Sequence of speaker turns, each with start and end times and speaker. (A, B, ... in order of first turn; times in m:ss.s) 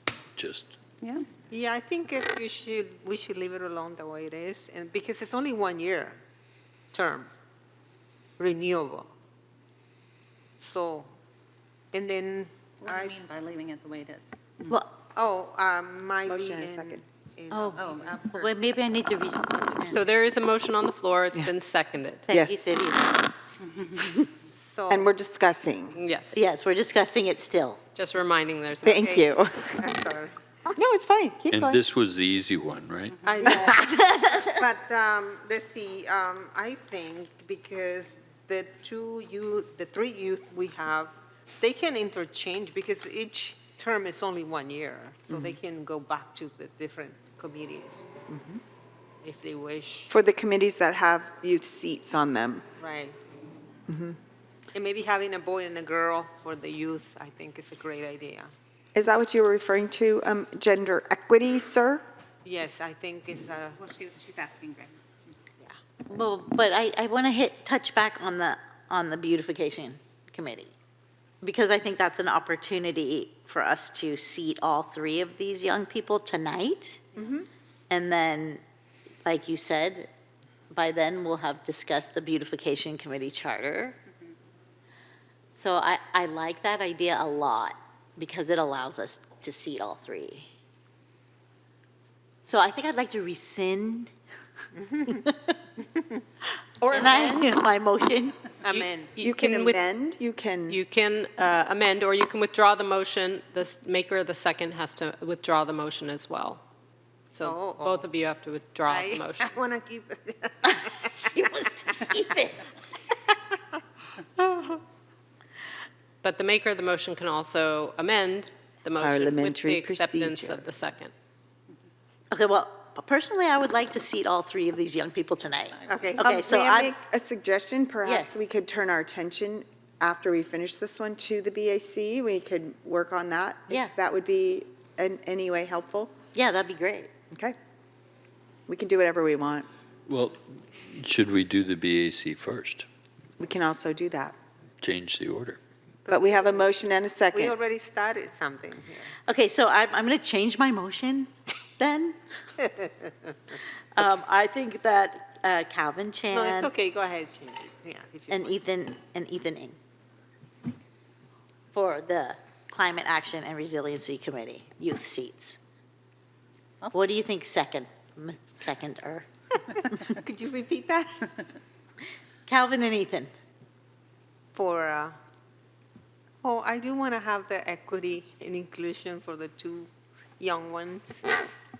0:00.4-0:00.8 A
0:01.5-0:06.2 B
0:06.9-0:07.3 B
0:08.4-0:09.1 B
0:10.6-0:11.1 B
0:11.9-0:13.2 B
0:12.8-0:14.7 C
0:14.7-0:15.0 D
0:15.2-0:18.5 B
0:16.3-0:17.0 E
0:17.5-0:20.0 D
0:17.8-0:18.1 C
0:19.9-0:22.3 F
0:22.3-0:23.3 D
0:22.3-0:22.7 E
0:24.6-0:25.1 B
0:24.9-0:26.0 E
0:26.0-0:26.4 F
0:26.3-0:27.8 D
0:28.0-0:29.1 F
0:28.8-0:29.8 E
0:29.0-0:30.4 B
0:30.8-0:31.8 E
0:31.5-0:33.2 A
0:33.2-0:48.0 B
0:33.4-0:34.5 D
0:33.5-0:33.8 E
0:45.3-0:45.6 E
0:48.3-0:48.6 E
0:49.2-0:50.1 B
0:50.1-0:52.6 E
0:52.8-0:53.2 B
0:53.9-0:54.2 E
0:54.7-0:58.5 B
0:59.0-1:02.0 E
1:02.4-1:03.9 B
1:03.8-1:05.0 C
1:06.1-1:10.7 D
1:11.4-1:17.1 D
1:17.2-1:17.5 E
1:17.9-1:18.6 D
1:19.2-1:20.1 D
1:20.7-1:24.0 D
1:25.5-1:30.5 D
1:32.4-1:34.1 D
1:34.8-1:35.3 B
1:35.1-1:35.4 D
1:36.8-1:37.5 E
1:36.9-1:38.4 D
1:38.6-1:39.1 B
1:38.7-1:39.8 F
1:39.2-1:40.8 E
1:40.7-1:46.6 F
1:47.3-1:49.5 F
1:47.4-1:48.1 B
1:48.9-1:51.4 B
1:51.2-1:52.6 D
1:56.2-2:01.2 F
1:59.0-2:00.7 E
2:02.3-2:06.9 D
2:05.9-2:06.4 B
2:06.3-2:16.1 E
2:08.0-2:08.3 D
2:16.3-2:17.1 D
2:18.7-2:19.7 E
2:20.1-2:22.9 A
2:23.4-2:24.4 E
2:24.8-2:25.6 A
2:26.0-2:26.7 B
2:26.1-2:27.6 E
2:27.3-2:29.2 B
2:29.3-2:32.2 D
2:34.0-2:36.7 D
2:36.3-2:38.6 B
2:38.3-2:39.8 D
2:41.7-2:45.6 D
2:46.9-2:49.3 D
2:49.9-2:51.3 B
2:52.5-2:53.3 D
2:54.6-2:55.2 B
2:56.4-2:59.9 B
3:00.4-3:01.4 B